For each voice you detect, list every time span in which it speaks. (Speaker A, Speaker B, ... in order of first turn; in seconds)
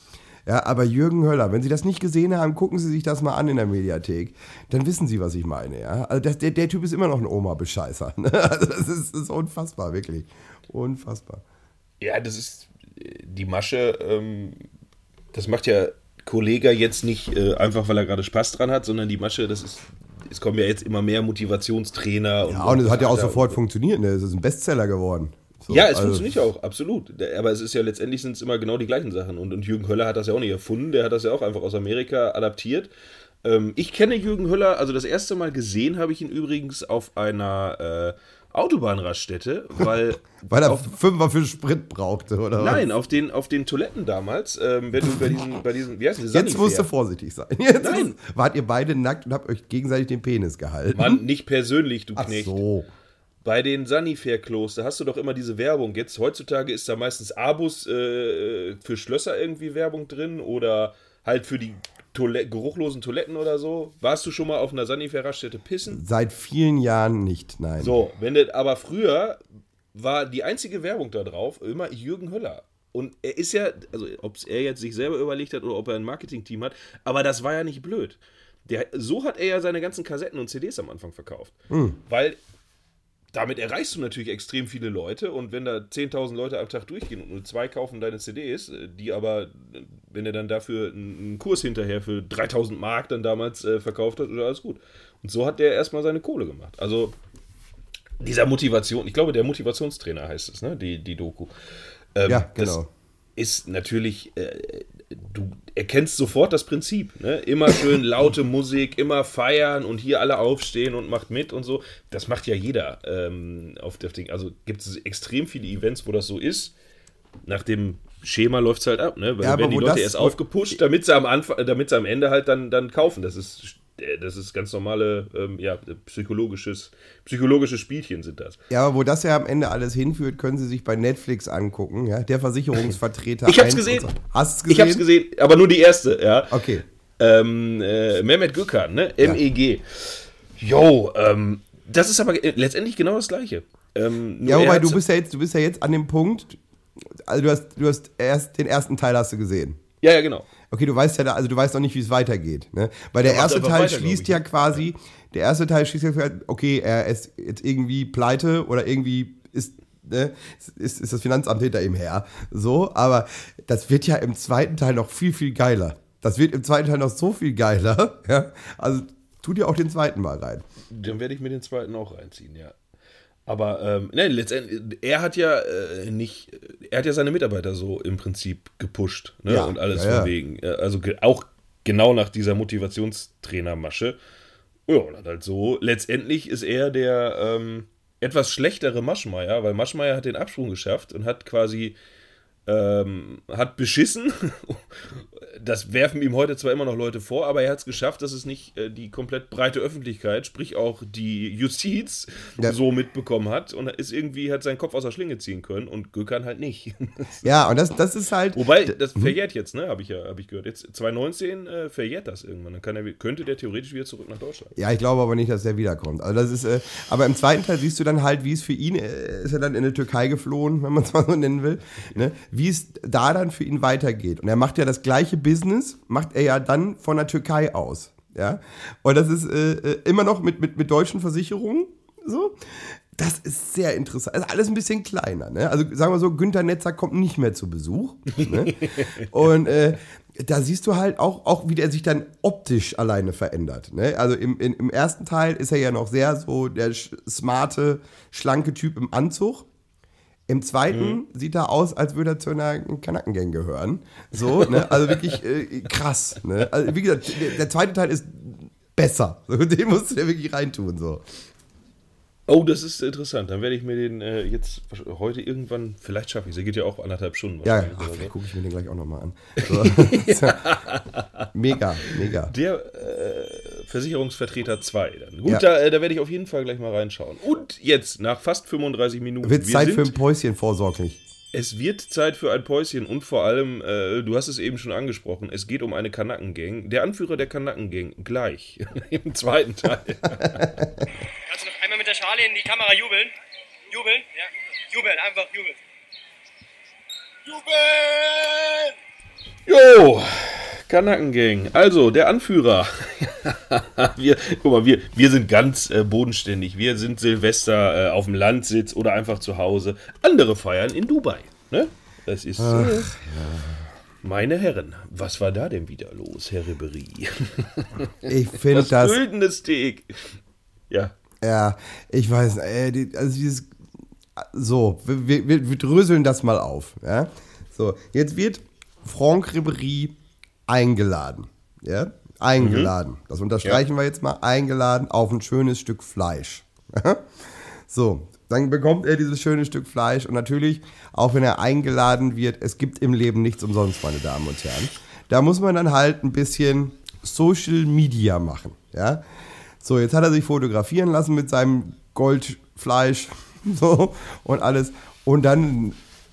Speaker A: 0.5-11.4, 22.4-26.3, 40.5-42.9, 46.3-51.2, 52.1-52.9, 65.9-67.9, 81.7-82.0, 102.3-102.9, 119.4-120.3, 128.7-135.0, 136.5-136.8, 144.4-146.6, 147.2-149.8, 150.7-170.6, 179.5-180.3, 207.4-209.3, 214.8-249.7, 250.5-261.2, 267.6-270.7, 271.5-272.5, 279.4-281.2, 290.4-291.1, 312.6-313.9, 318.2-319.2, 321.4-323.7, 324.4-330.1, 330.7-349.2, 349.8-356.0
Speaker B: 12.0-14.6, 15.3-23.6, 25.7-32.9, 33.4-40.9, 42.6-46.9, 47.8-48.1, 50.9-52.6, 53.4-66.0, 67.8-69.4, 69.9-82.4, 83.3-97.1, 98.2-101.5, 102.1-102.8, 103.3-116.7, 117.5-128.6, 133.4-134.1, 134.7-136.7, 137.2-145.0, 150.0-150.5, 153.2-154.5, 170.8-172.7, 173.4-184.2, 184.9-191.9, 192.7-207.5, 208.5-214.7, 238.3-239.3, 250.9-251.2, 254.4-255.3, 262.5-268.3, 269.6-271.5, 272.0-280.1, 281.5-290.8, 299.7-313.1, 314.2-318.1, 318.7-320.3, 332.6-332.9
Speaker C: 291.4-293.3, 293.9-295.8, 297.4-298.9